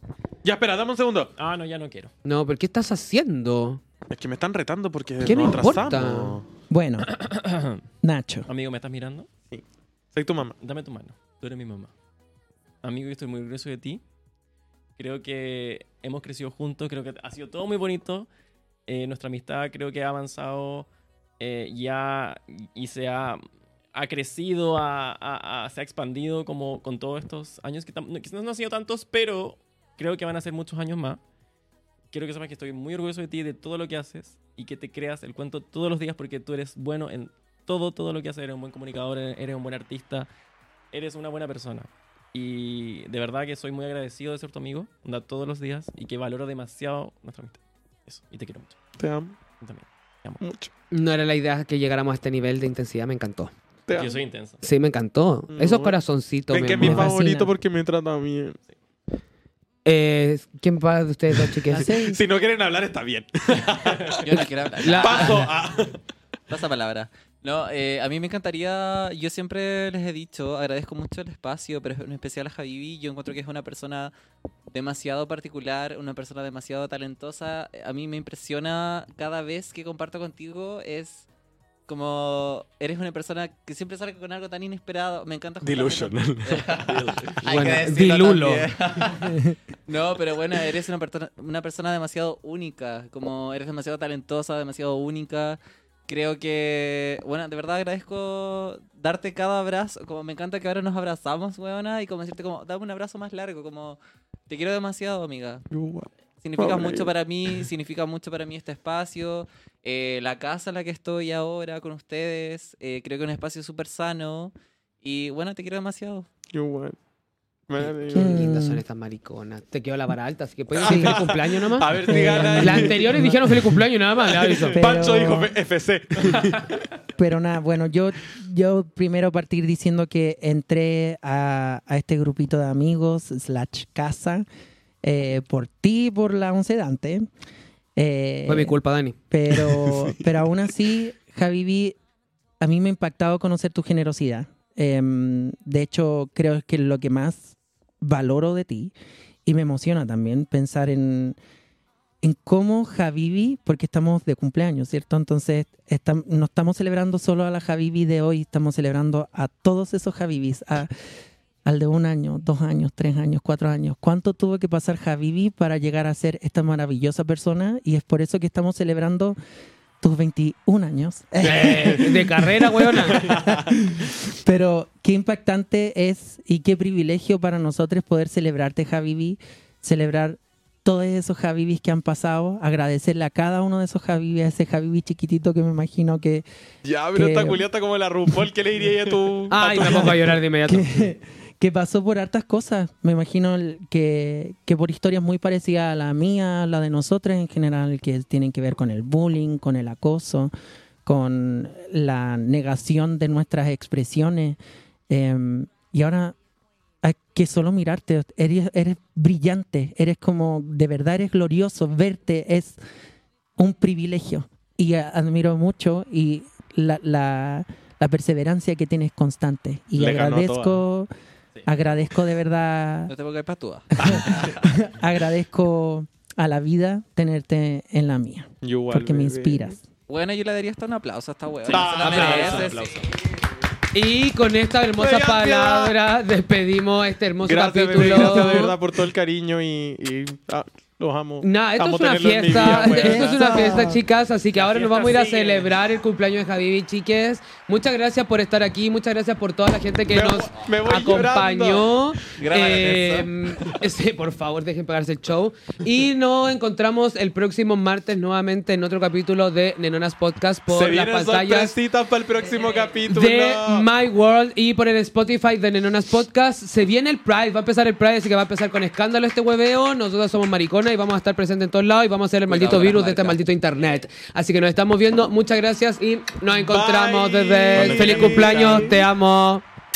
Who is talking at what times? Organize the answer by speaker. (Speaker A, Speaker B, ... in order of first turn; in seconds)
Speaker A: 0.4-1.3, 4.1-6.4, 10.1-10.6, 49.0-49.3, 50.4-50.7, 53.9-54.1, 55.5-56.0, 56.5-58.6, 61.9-64.4, 65.0-66.0, 85.6-87.0, 105.7-107.7, 116.5-117.0, 117.7-118.4, 120.7-123.2, 124.3-126.8, 139.6-140.1, 171.5-172.0, 173.1-173.7, 186.8-190.3, 220.0-220.8, 224.0-224.5, 228.6-229.7, 231.7-232.9, 235.0-235.9, 237.4-243.9, 250.1-252.3, 260.7-263.9, 276.5-279.1
Speaker B: 1.4-2.1, 7.0-7.8, 8.5-9.3, 10.6-11.9, 12.8-14.0, 15.0-18.3, 18.9-20.9, 21.4-23.4, 23.9-31.2, 32.1-40.3, 40.9-48.8, 49.6-50.4, 53.9-54.6, 86.9-87.3, 231.7-233.1, 244.5-245.7, 277.9-278.8
Speaker C: 2.2-3.8, 5.2-6.4, 50.9-53.5, 54.6-57.5, 59.8-61.9, 64.8-65.5, 87.4-88.7, 118.1-124.8, 138.5-139.2, 171.4-173.3, 189.5-191.0, 232.1-232.6, 233.9-238.8, 241.4-261.8, 263.1-279.6
Speaker D: 6.7-7.1, 8.0-8.5, 56.8-57.5, 61.7-62.2, 118.1-118.8, 120.8-121.3, 122.1-123.8, 124.7-125.5, 127.2-134.4, 135.0-137.3, 137.9-138.8, 139.3-141.9, 142.6-148.9, 149.4-151.4, 152.2-160.9, 161.7-169.3, 170.0-186.4, 187.1-187.6, 189.8-190.2, 190.7-200.5, 201.0-204.6, 205.1-206.3, 207.0-212.8, 213.6-221.1, 221.7-223.1, 224.0-229.8, 242.5-244.0
Speaker E: 64.2-65.5, 66.5-74.1, 74.7-81.3, 81.9-105.6, 106.4-116.3, 223.1-224.6, 230.1-233.1, 252.3-253.3, 262.5-263.0, 272.5-273.4